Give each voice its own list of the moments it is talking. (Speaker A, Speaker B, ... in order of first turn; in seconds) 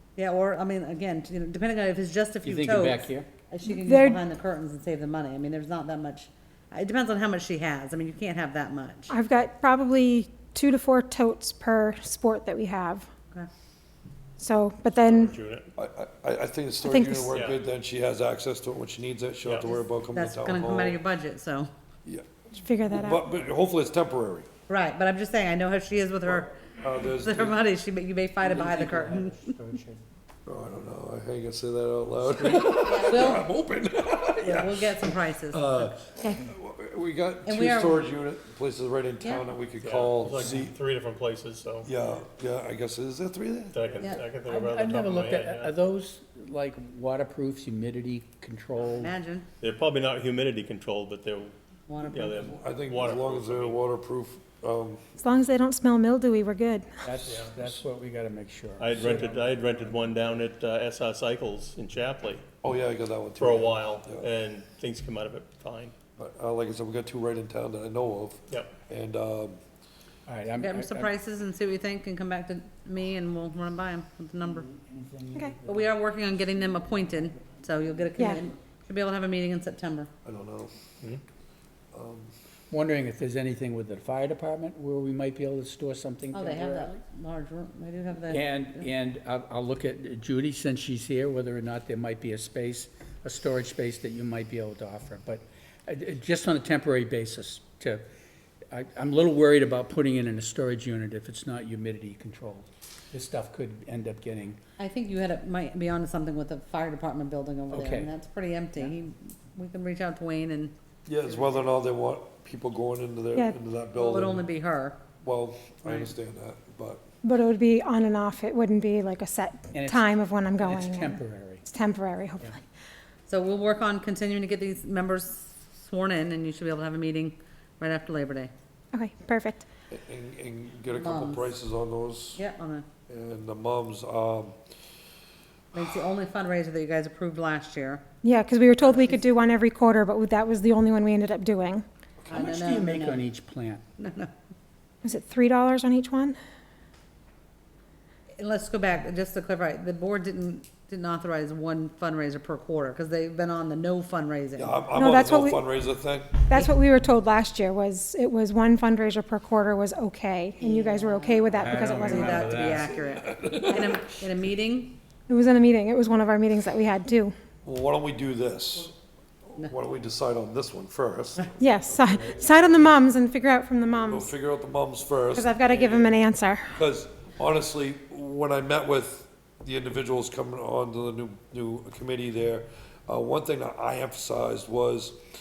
Speaker A: 0.2-9.1, 20.1-21.7, 24.7-29.5, 32.9-33.4, 34.4-36.0, 37.5-38.0, 44.0-44.2, 48.8-49.5, 51.9-52.4, 70.6-74.7, 75.7-80.1, 86.3-88.9, 104.8-110.7, 113.9-115.0, 115.8-116.1, 123.3-128.5, 131.0-131.5, 132.4-132.8, 135.7-138.0, 138.8-139.2, 142.3-143.2, 144.0-144.3, 148.4-154.8, 160.6-164.9
Speaker B: 2.4-3.3, 28.4-30.0, 32.3-33.0, 44.5-49.1, 57.0-59.5, 70.3-71.1, 74.4-75.9, 82.7-86.9, 88.3-98.0, 98.7-104.6, 107.7-108.1, 119.7-121.6, 142.3-143.8, 161.6-162.9
Speaker C: 3.6-4.2, 9.1-13.1, 14.4-15.3, 16.8-17.3, 22.5-23.2, 55.2-56.9, 117.2-122.6, 128.9-129.7, 138.2-141.8, 145.0-146.4, 154.9-155.6, 156.5-162.7, 165.3-167.3, 171.6-174.3, 175.3-176.7
Speaker D: 15.0-15.7, 17.3-17.6, 19.4-19.7, 39.8-41.9, 43.7-45.7, 49.6-51.5, 52.0-53.8, 57.2-57.7, 58.8-62.4, 63.4-65.9
Speaker E: 15.8-21.0, 22.9-24.5, 26.7-27.6, 30.4-40.7, 41.8-44.0, 52.4-55.0, 62.6-64.3, 66.2-69.6, 80.2-80.7, 81.9-82.3, 111.0-114.5, 115.2-117.0, 129.9-132.4, 133.1-134.6, 142.2-142.5, 154.6-156.4, 162.6-164.0, 167.6-168.9, 169.5-172.7, 174.0-176.2, 176.7-185.2